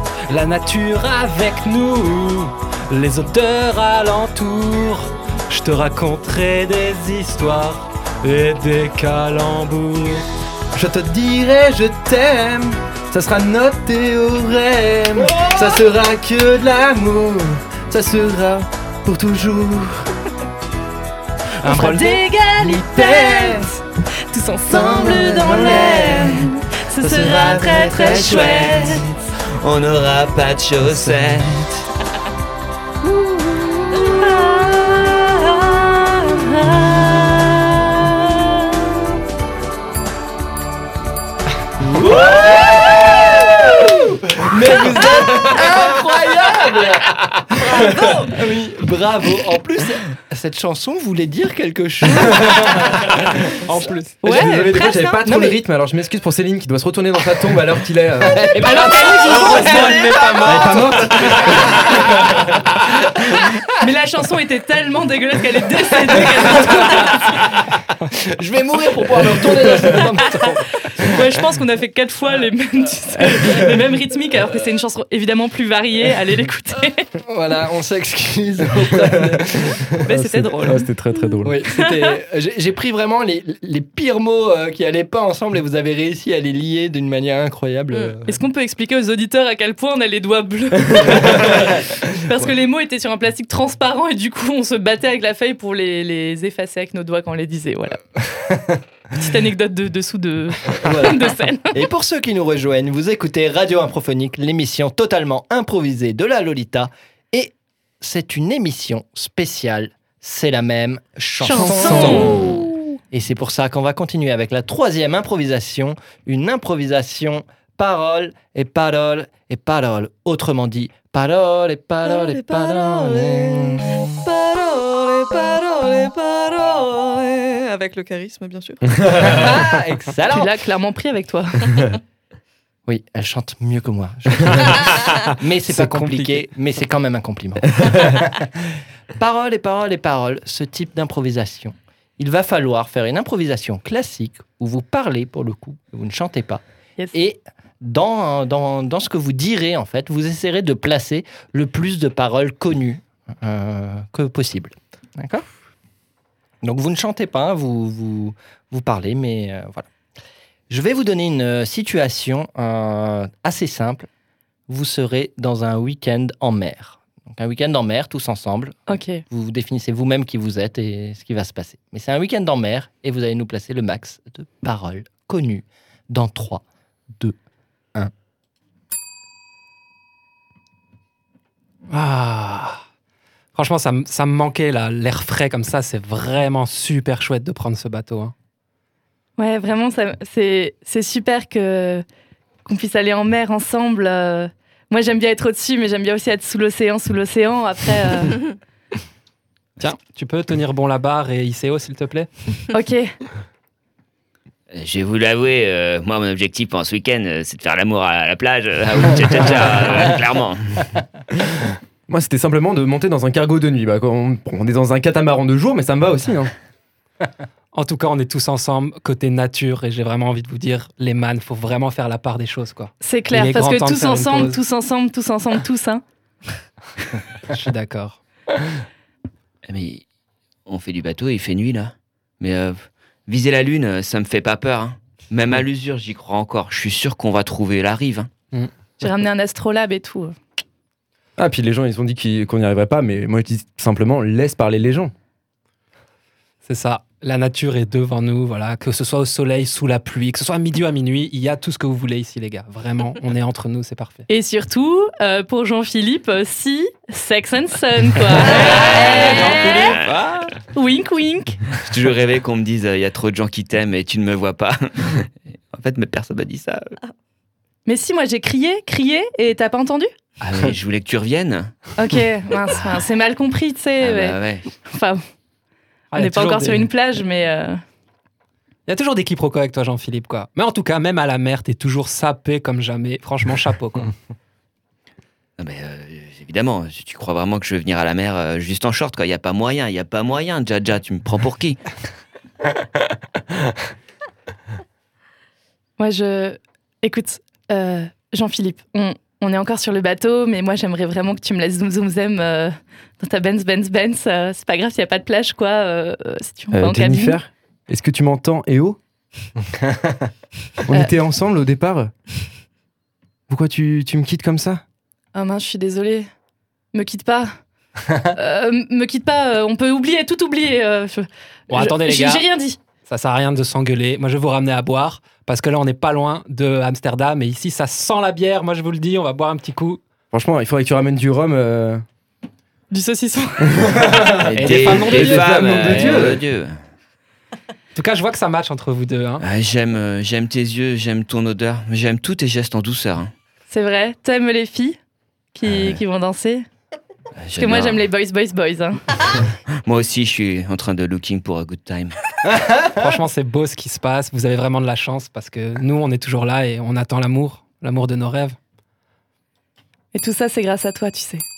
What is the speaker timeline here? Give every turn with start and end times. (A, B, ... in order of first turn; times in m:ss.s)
0:00.3-0:10.2 A
0:10.7-0:20.1 B
0:21.6-0:22.2 A
0:21.6-0:29.0 C
0:22.6-0:23.7 B
0:24.7-0:26.4 B
0:25.4-0:26.4 D
0:27.0-0:29.0 B
0:27.2-0:31.8 D
0:34.0-0:39.0 C
0:41.8-0:53.7 E
0:47.7-0:48.3 F
0:53.6-0:54.3 A
0:54.2-0:55.2 C
0:54.2-0:58.5 B
0:55.2-0:55.6 E
0:58.3-1:02.4 E
0:58.5-1:00.4 C
0:59.1-1:01.3 A
0:59.7-1:00.5 F
1:00.4-1:02.0 B
1:03.7-1:07.6 C
1:06.2-1:06.7 E
1:08.1-1:11.2 E
1:09.8-1:17.1 C
1:17.2-1:20.0 E
1:20.0-1:20.9 C
1:20.0-1:21.6 B
1:21.4-1:28.4 E
1:21.6-1:21.9 C
1:28.2-1:38.0 C
1:31.0-1:32.4 E
1:38.2-1:38.8 E
1:39.1-1:41.8 C
1:40.7-2:04.0 E
1:51.4-1:52.5 C
1:51.4-1:52.7 B
2:02.0-2:09.2 F
2:08.9-2:09.6 B
2:09.1-2:10.5 E
2:10.3-2:11.8 C
2:12.9-2:26.6 E
2:15.7-2:16.4 A
2:27.1-2:35.5 E
2:36.6-2:39.9 E
2:40.7-2:44.1 E
2:44.7-2:57.4 E
2:48.9-2:49.2 C
3:01.9-3:02.8 A
3:03.5-3:08.3 A
3:09.4-3:12.0 C
3:12.6-3:18.4 C
3:19.8-3:22.3 A
3:22.7-3:23.1 C
3:24.7-3:30.9 D
3:32.1-3:36.5 B
3:37.7-3:44.6 A
3:43.0-3:46.0 C
3:47.5-3:48.2 A
3:49.7-3:50.0 D
3:50.6-3:58.3 D
3:59.0-4:00.4 C
4:01.4-4:05.1 B
4:06.6-4:14.2 A
4:14.3-4:20.0 C
4:18.6-4:19.1 F
4:18.6-4:20.5 D
4:19.3-4:20.4 A
4:20.7-4:21.6 C
4:21.7-4:27.0 D
4:27.8-4:30.1 C
4:30.4-4:31.9 D
4:32.0-4:35.2 C
4:34.0-4:34.7 D
4:36.1-4:36.9 A
4:36.1-4:37.8 C
4:38.9-4:44.1 A
4:45.6-4:51.8 D
4:56.0-5:07.4 C
5:06.7-5:09.0 B
5:09.8-5:10.3 E
5:10.8-5:12.1 B
5:13.5-5:14.8 B
5:15.3-5:16.3 C
5:16.9-5:17.6 C
5:18.2-5:22.8 C
5:21.7-5:22.5 A
5:23.0-5:30.0 A
5:30.3-5:32.0 B
5:32.9-5:34.2 C
5:33.8-5:36.4 B
5:34.3-5:36.8 D
5:34.4-5:36.3 A
5:37.9-5:39.4 A
5:39.4-5:43.3 D
5:43.7-5:45.0 C
5:45.5-5:46.6 C
5:45.6-5:46.0 D
5:47.4-5:48.0 D
5:47.6-5:49.0 C
5:49.3-5:52.2 D
5:52.5-5:52.9 E
5:52.9-5:58.6 A
6:00.1-6:01.4 C